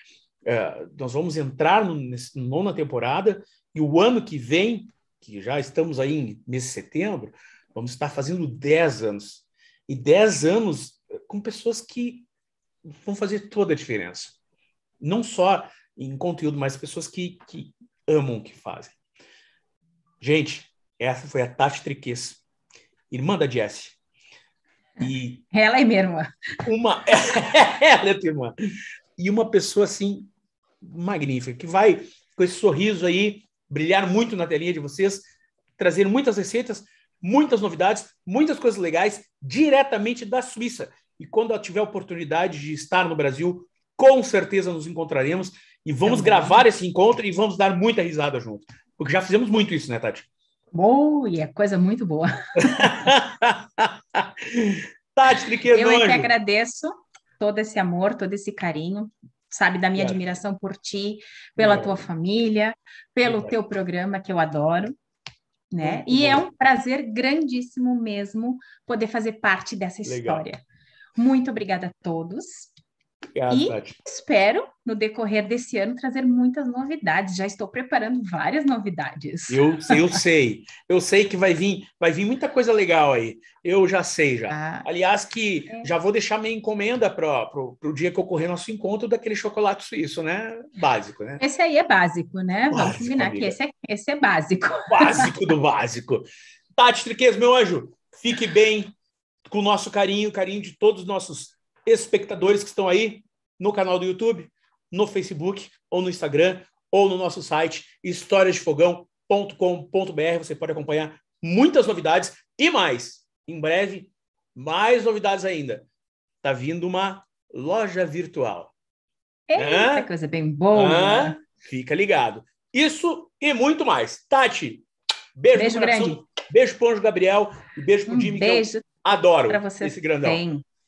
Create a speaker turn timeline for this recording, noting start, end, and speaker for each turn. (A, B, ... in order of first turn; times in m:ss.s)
0:00.4-0:12.2 A
0:12.9-0:14.4 A
0:15.0-0:19.0 A
0:20.2-0:22.4 A
0:23.1-0:24.0 A
0:25.0-0:25.4 A
0:25.5-0:26.3 B
0:26.6-0:28.5 A
0:29.2-0:30.3 A
0:30.8-0:35.2 A
0:35.8-0:50.3 A
0:46.0-0:46.6 B
0:50.7-0:53.1 B
0:52.6-0:56.3 A
0:55.7-1:04.9 B
1:00.0-1:00.2 A
1:01.6-1:02.1 A
1:03.2-1:03.5 A
1:05.7-1:10.6 B
1:05.8-1:06.5 A
1:10.0-1:10.4 A
1:11.2-1:12.7 B
1:13.3-1:14.0 A
1:13.5-1:20.2 B
1:19.5-1:31.4 A
1:24.5-1:24.8 B
1:31.4-1:35.3 B
1:32.7-1:33.6 A
1:34.9-1:38.9 A
1:39.4-1:55.8 A
1:56.4-1:58.7 A
1:59.5-2:01.4 B
1:59.6-2:00.1 A
2:00.7-2:04.8 A
2:05.3-2:10.4 A
2:05.5-2:06.2 B
2:08.1-2:08.8 B
2:09.5-2:10.6 B